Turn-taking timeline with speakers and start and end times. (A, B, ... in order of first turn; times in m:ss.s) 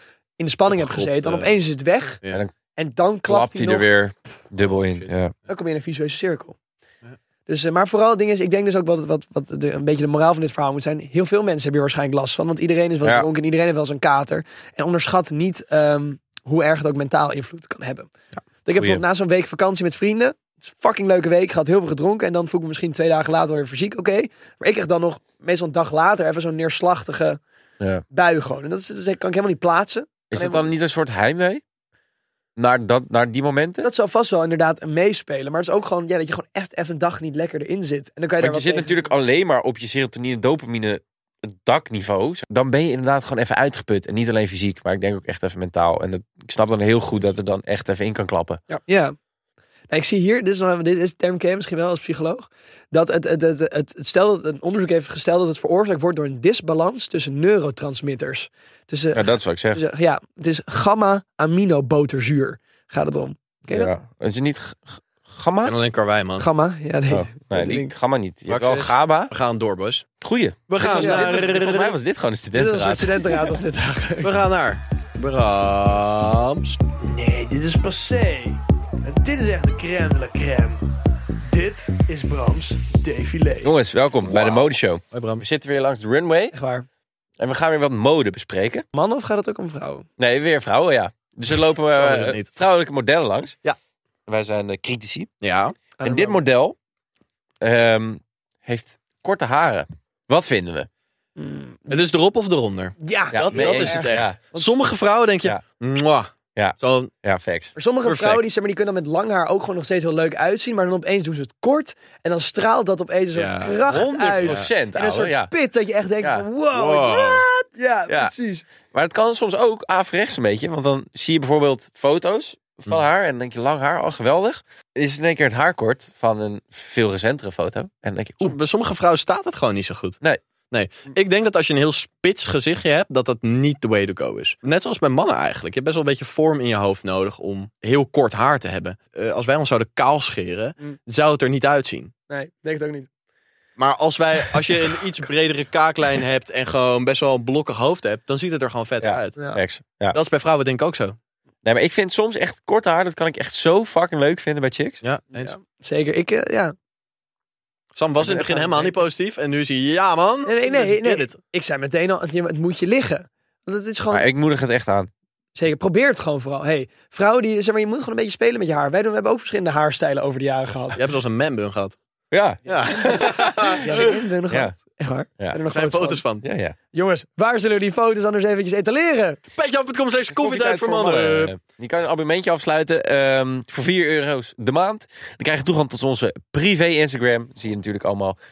0:00.4-0:02.2 A
0:00.7-0:01.5 B
0:02.8-0:03.9 A
0:03.3-0:05.3 C
0:04.6-0:05.2 B
0:05.5-0:06.6 A
0:07.5-0:18.1 A
0:18.6-0:27.4 A
0:28.1-0:30.7 A
0:30.3-0:31.6 C
0:32.6-0:33.9 C
0:33.8-0:39.0 A
0:38.4-0:48.6 C
0:48.7-0:49.1 A
0:49.9-1:03.9 A
0:59.1-0:59.8 C
1:03.7-1:05.8 C
1:05.6-1:06.5 B
1:06.4-1:07.9 A
1:07.1-1:09.3 C
1:08.5-1:10.1 B
1:10.2-1:13.4 C
1:10.7-1:12.0 B
1:11.0-1:11.4 A
1:12.5-1:14.3 A
1:14.2-1:16.8 B
1:17.0-1:20.9 A
1:21.5-1:23.7 A
1:23.6-1:26.6 C
1:24.2-1:25.4 B
1:26.5-1:26.9 A
1:27.4-1:28.8 C
1:28.9-1:30.1 A
1:30.2-1:33.6 C
1:31.9-1:32.5 B
1:34.3-1:35.3 C
1:35.4-1:35.8 B
1:36.0-1:36.4 A
1:36.0-1:36.8 C
1:37.6-1:40.9 C
1:41.4-1:42.0 A
1:41.9-1:47.1 B
1:43.0-1:44.7 A
1:43.3-1:44.4 C
1:46.6-1:47.7 C
1:47.8-1:58.6 A
1:48.0-1:48.4 B
1:53.3-1:53.8 B
1:53.9-1:55.5 C
1:54.4-1:54.7 B
1:56.7-1:57.4 B
1:58.9-2:08.6 C
2:08.4-2:10.2 B
2:10.7-2:22.1 B
2:22.3-2:23.1 A
2:23.8-2:29.4 B
2:29.0-2:30.2 C
2:30.1-2:31.2 B
2:31.6-2:35.0 C
2:35.0-2:35.6 B
2:35.3-2:36.7 A
2:37.9-2:41.4 B
2:38.2-2:39.0 A
2:40.5-2:44.2 A
2:44.1-2:45.1 C
2:45.6-2:51.0 A
2:51.0-2:52.0 B
2:52.3-2:54.8 C
2:52.6-2:54.0 B
2:53.8-2:56.2 A
2:55.7-2:56.4 B
2:56.4-2:56.8 C
2:56.9-2:59.4 A
2:59.6-3:01.6 B
3:00.3-3:08.4 C